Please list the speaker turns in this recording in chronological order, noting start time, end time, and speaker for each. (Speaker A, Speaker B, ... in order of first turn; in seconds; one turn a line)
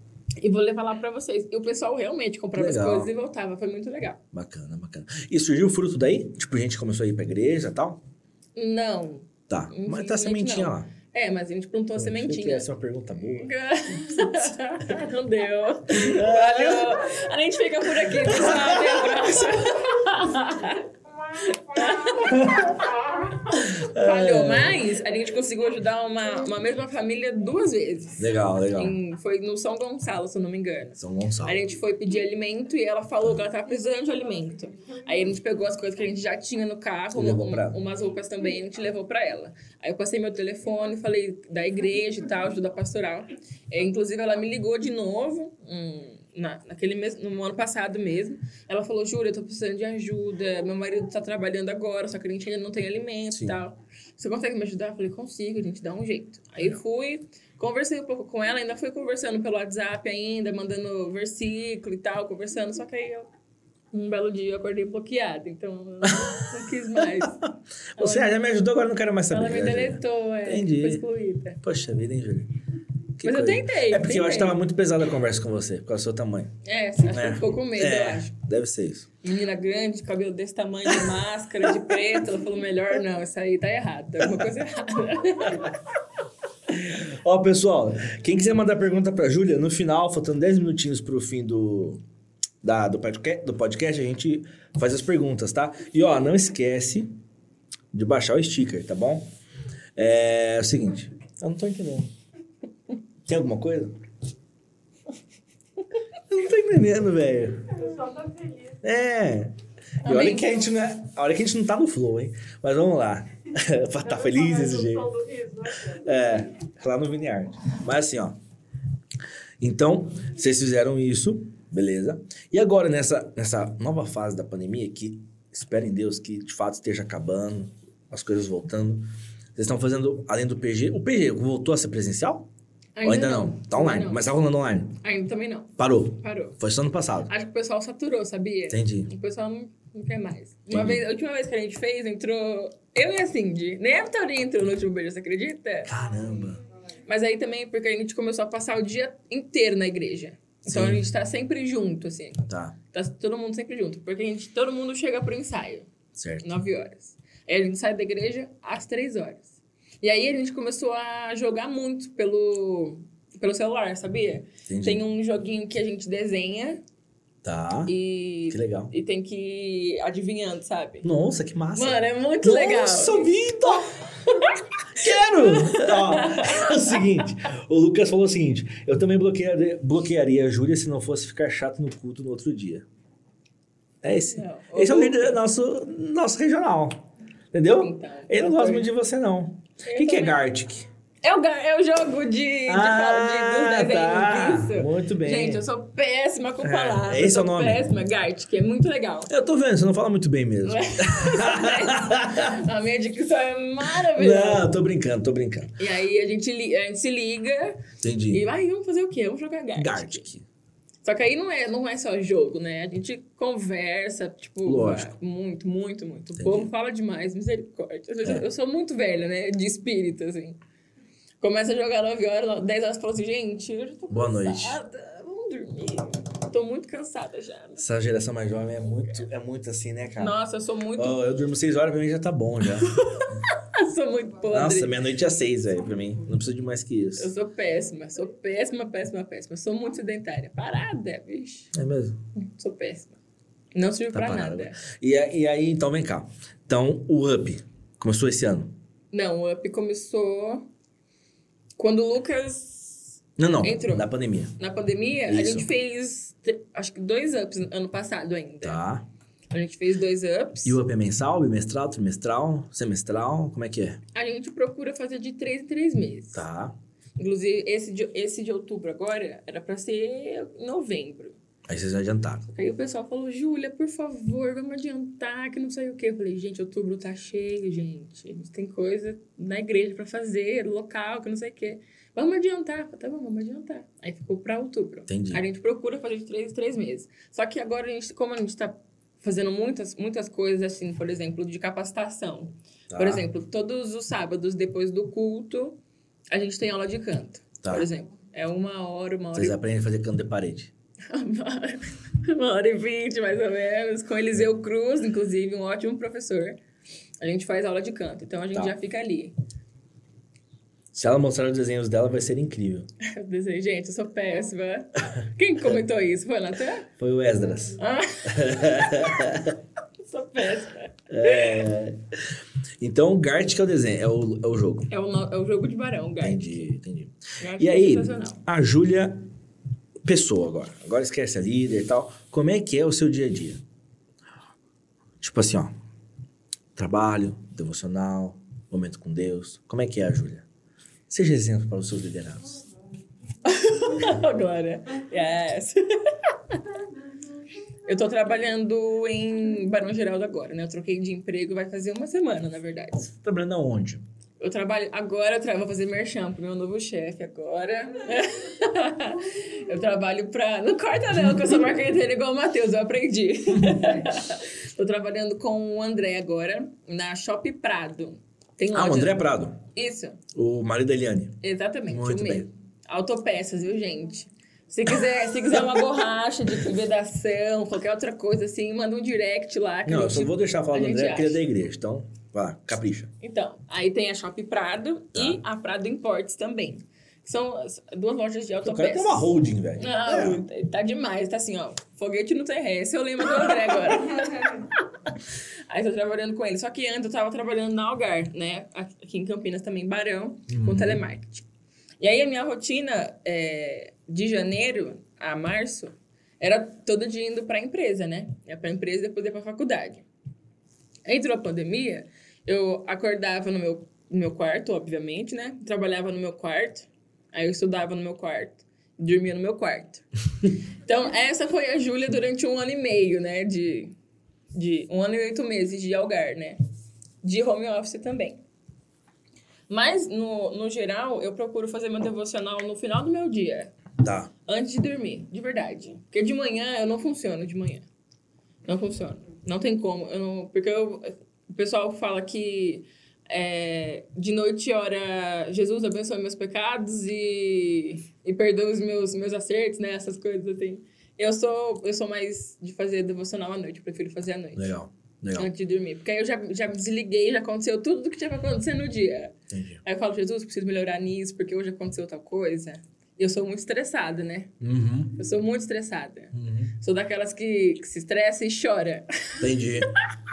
Speaker A: 0.4-4.2
Speaker B: 2.5-3.1
Speaker B: 4.3-8.0
Speaker A: 8.6-12.7
Speaker B: 9.5-10.9
Speaker B: 11.9-13.5
Speaker A: 13.4-20.9
Speaker B: 15.9-17.0
Speaker B: 18.1-19.3
Speaker A: 21.4-22.8
Speaker C: 21.8-22.8
Speaker B: 22.3-22.7
Speaker A: 23.5-63.3
Speaker B: 23.5-24.9
Speaker B: 28.2-29.0
Speaker B: 31.0-31.6
Speaker B: 37.1-37.8
Speaker B: 53.3-53.6
Speaker A: 63.9-67.4
Speaker B: 66.0-66.4
Speaker B: 67.0-71.0
Speaker A: 68.0-68.3
Speaker A: 69.3-71.6
Speaker B: 71.6-72.5
Speaker B: 73.2-76.5
Speaker A: 73.2-74.6
Speaker A: 76.6-78.3
Speaker B: 77.1-79.1
Speaker A: 79.2-85.7
Speaker B: 81.6-81.9
Speaker B: 84.2-84.5
Speaker B: 86.7-92.0
Speaker B: 92.6-97.2
Speaker B: 97.9-99.3
Speaker B: 100.0-102.1
Speaker B: 103.2-103.9
Speaker B: 106.3-107.8
Speaker C: 107.7-108.8
Speaker B: 108.8-115.1
Speaker A: 110.0-110.6
Speaker C: 114.0-116.4
Speaker B: 115.9-118.4
Speaker B: 119.6-132.5
Speaker A: 133.0-134.2
Speaker B: 133.0-134.9
Speaker A: 135.0-136.6
Speaker B: 135.8-137.3
Speaker A: 137.3-145.9
Speaker B: 138.7-139.1
Speaker B: 140.7-141.0
Speaker B: 145.8-146.6
Speaker A: 147.1-155.9
Speaker B: 150.7-151.1
Speaker B: 152.5-152.8
Speaker B: 156.1-156.5
Speaker A: 156.4-166.8
Speaker B: 164.7-165.0
Speaker B: 167.4-167.9
Speaker A: 167.9-171.1
Speaker B: 168.5-168.9
Speaker B: 171.0-174.1
Speaker A: 171.7-173.3
Speaker A: 174.2-177.0
Speaker B: 174.9-182.8
Speaker B: 184.0-190.9
Speaker A: 184.3-185.4
Speaker A: 187.8-188.9
Speaker A: 189.8-190.4
Speaker A: 191.2-199.3
Speaker B: 192.7-195.6
Speaker B: 196.6-197.9
Speaker B: 199.3-202.6
Speaker A: 200.7-204.7
Speaker B: 204.0-205.8
Speaker A: 205.8-210.3
Speaker B: 208.0-208.4
Speaker B: 209.7-210.4
Speaker A: 211.0-220.6
Speaker B: 214.6-215.1
Speaker B: 216.4-216.7
Speaker A: 221.4-227.8
Speaker B: 224.1-224.8
Speaker B: 227.8-230.4
Speaker A: 230.2-231.2
Speaker B: 230.9-233.0
Speaker A: 232.8-235.0
Speaker B: 234.5-237.3
Speaker A: 237.2-241.7
Speaker B: 241.7-242.2
Speaker A: 242.3-243.2
Speaker A: 243.7-244.8
Speaker B: 244.1-248.7
Speaker A: 249.1-250.7
Speaker A: 251.8-258.8
Speaker B: 253.4-254.5
Speaker B: 255.3-255.7
Speaker B: 258.6-259.1
Speaker A: 259.5-260.8
Speaker B: 260.6-264.0
Speaker A: 264.1-266.4
Speaker B: 266.3-266.7
Speaker A: 267.2-271.4
Speaker B: 271.7-272.5
Speaker A: 272.5-295.8
Speaker B: 285.1-285.4
Speaker B: 292.9-293.2
Speaker A: 296.3-299.6
Speaker B: 297.6-297.9
Speaker B: 299.3-300.7
Speaker A: 301.1-306.6
Speaker A: 307.2-309.3
Speaker B: 310.9-312.9
Speaker A: 313.0-316.9
Speaker B: 317.0-319.6
Speaker A: 317.8-319.2
Speaker A: 320.0-321.6
Speaker B: 321.1-322.0
Speaker B: 322.8-324.9
Speaker A: 324.9-326.7
Speaker B: 326.2-329.2
Speaker A: 327.4-328.4
Speaker B: 330.0-333.6
Speaker B: 335.2-335.7
Speaker B: 336.8-340.4
Speaker B: 341.1-342.6
Speaker A: 343.4-346.6
Speaker A: 347.8-353.1
Speaker B: 353.1-354.0
Speaker A: 354.4-369.2
Speaker B: 363.5-364.0
Speaker B: 368.7-369.6
Speaker A: 369.7-370.2
Speaker B: 370.3-372.5
Speaker A: 371.4-381.4
Speaker B: 379.8-383.1
Speaker A: 383.2-395.1
Speaker B: 385.1-385.4
Speaker B: 388.6-390.4
Speaker A: 395.7-401.4
Speaker B: 400.5-401.0
Speaker A: 402.0-410.0
Speaker A: 411.1-423.9
Speaker A: 424.5-426.6
Speaker A: 427.2-428.4
Speaker A: 429.7-433.7
Speaker B: 434.0-434.3
Speaker A: 434.4-437.9
Speaker A: 438.6-454.7
Speaker B: 454.5-455.5
Speaker A: 455.3-464.5
Speaker B: 459.5-459.8
Speaker B: 464.6-465.2
Speaker A: 465.1-469.4
Speaker B: 466.3-466.7
Speaker B: 469.4-469.9